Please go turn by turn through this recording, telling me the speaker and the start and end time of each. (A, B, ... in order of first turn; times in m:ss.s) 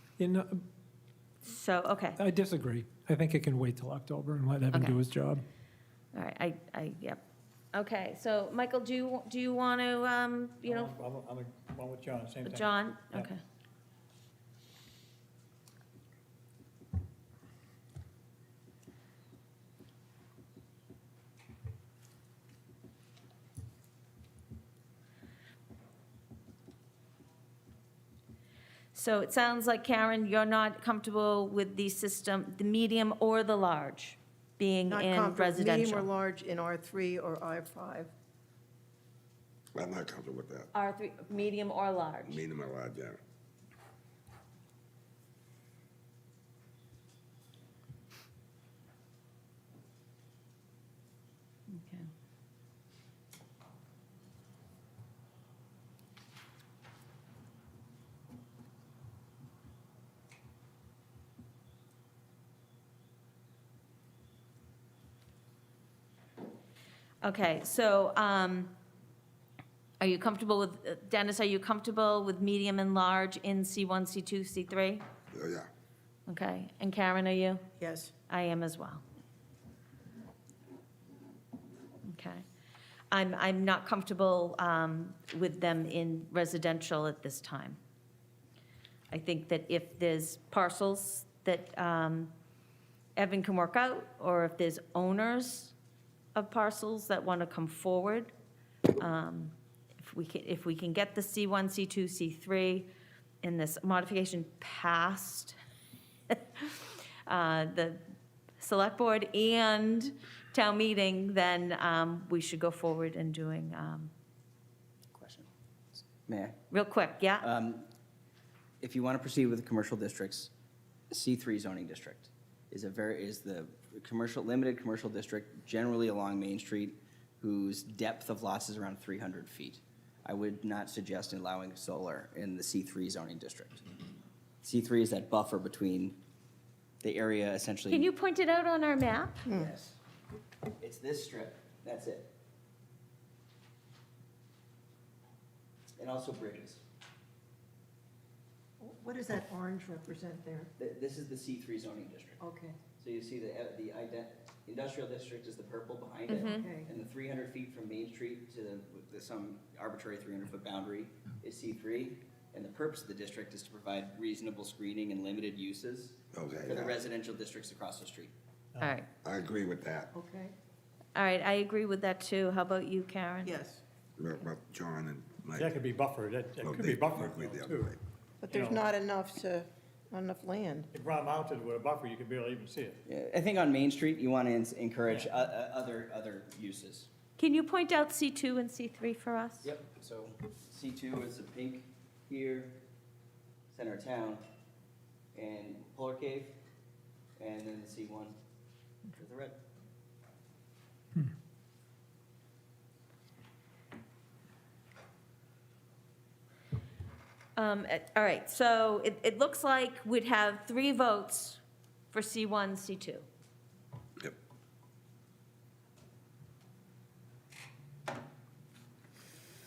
0:00.2-0:00.6 A
0:01.4-0:02.2 B
0:02.2-0:05.4 A
0:04.7-0:05.0 B
0:06.1-0:07.2 B
0:07.7-0:10.9 B
0:10.6-0:13.3 C
0:12.4-0:13.4 B
0:28.9-0:36.1 B
0:34.9-0:38.1 D
0:39.8-0:40.7 E
0:40.7-0:42.4 B
0:42.3-0:43.2 E
0:51.7-0:52.1 B
1:07.2-1:08.7 B
1:10.0-1:15.0 B
1:15.3-1:15.7 E
1:16.3-1:17.6 B
1:17.8-1:18.1 D
1:18.3-1:19.0 B
1:22.0-1:22.4 B
1:23.1-1:27.8 B
1:29.1-1:32.3 B
1:33.2-1:35.7 B
1:36.3-1:38.3 B
1:39.0-1:42.9 B
1:43.4-1:45.6 B
1:46.3-1:48.0 B
1:48.6-1:54.1 B
1:55.1-1:55.5 F
1:56.1-1:56.6 F
1:56.7-1:57.5 B
1:57.4-1:57.9 F
1:58.8-2:00.5 F
2:01.1-2:13.9 F
2:14.6-2:16.2 F
2:17.0-2:18.1 F
2:17.9-2:19.4 B
2:19.5-2:19.7 D
2:19.5-2:20.0 F
2:20.8-2:22.3 F
2:26.0-2:26.8 F
2:28.8-2:30.7 D
2:30.8-2:32.4 F
2:32.4-2:32.8 D
2:33.0-2:48.3 F
2:36.3-2:36.7 B
2:36.3-2:36.9 D
2:46.3-2:47.0 E
2:48.8-2:49.1 B
2:49.2-2:50.1 E
2:50.2-2:50.5 D
2:51.2-2:53.6 B
2:53.4-2:53.8 D
2:54.2-2:55.7 E
2:55.6-2:57.9 C
2:56.6-2:58.0 E
2:58.4-3:00.9 D
2:58.5-2:58.9 C
3:00.9-3:03.0 C
3:03.1-3:07.1 F
3:05.1-3:05.4 C
3:07.4-3:09.7 B
3:09.6-3:12.8 F
3:13.7-3:14.4 F
3:15.3-3:16.6 F
3:17.4-3:18.4 F
3:19.2-3:19.6 F
3:27.6-3:31.6 B
3:32.1-3:33.3 B